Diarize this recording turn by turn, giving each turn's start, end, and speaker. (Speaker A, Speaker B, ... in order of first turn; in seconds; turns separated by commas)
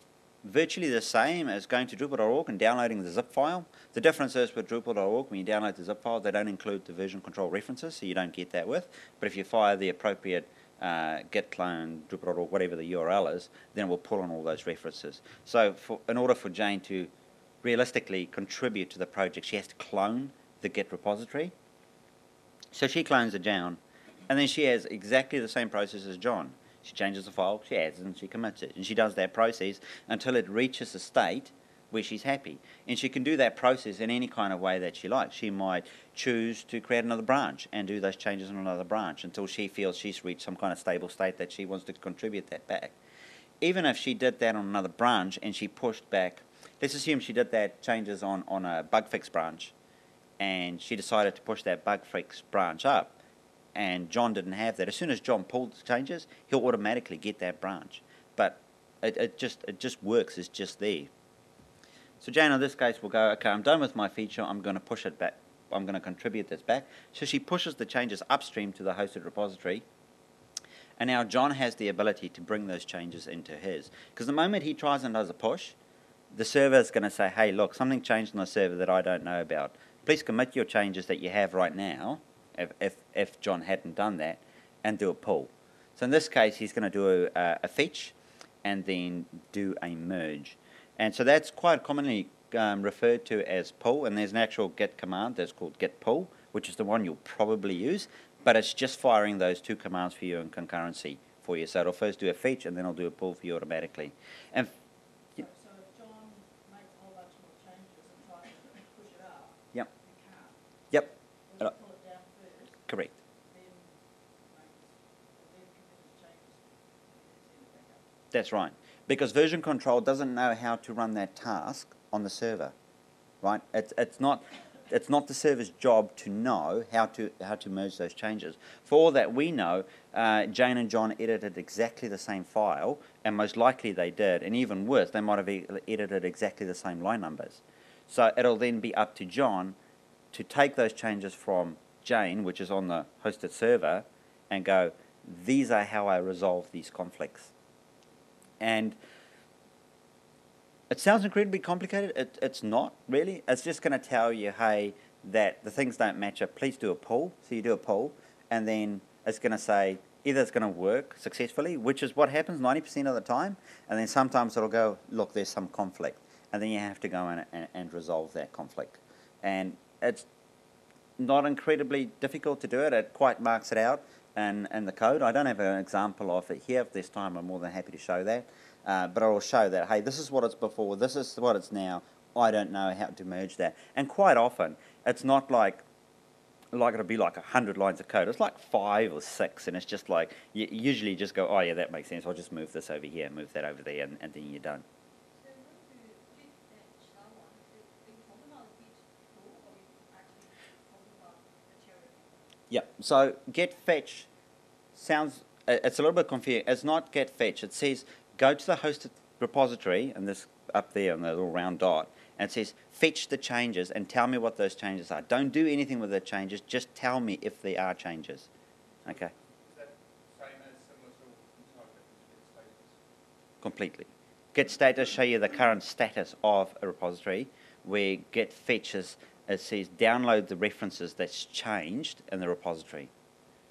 Speaker A: 0.4-17.1, Speaker A: 17.6-21.5, Speaker A: 22.7-42.9, Speaker A: 43.6-49.7, Speaker A: 50.4-53.2, Speaker A: 53.8-61.1, Speaker A: 62.2-69.8, Speaker A: 71.0-75.8, Speaker A: 76.3-104.7, Speaker B: 105.5-109.5, Speaker B: 110.1-110.5, Speaker B: 111.5-112.7, Speaker A: 112.9-113.2, Speaker B: 113.5-113.9, Speaker B: 114.5-114.9, Speaker B: 115.4-118.0, Speaker A: 118.3-122.7, Speaker A: 123.4-139.8, Speaker A: 140.3-147.5, Speaker A: 148.6-149.0, Speaker A: 150.9-170.3, Speaker A: 171.2-185.8, Speaker A: 186.7-194.8, Speaker C: 195.3-202.6, Speaker A: 202.7-204.3, Speaker A: 204.9-218.5, Speaker A: 219.1-219.3, Speaker D: 219.1-223.0, Speaker A: 223.6-233.1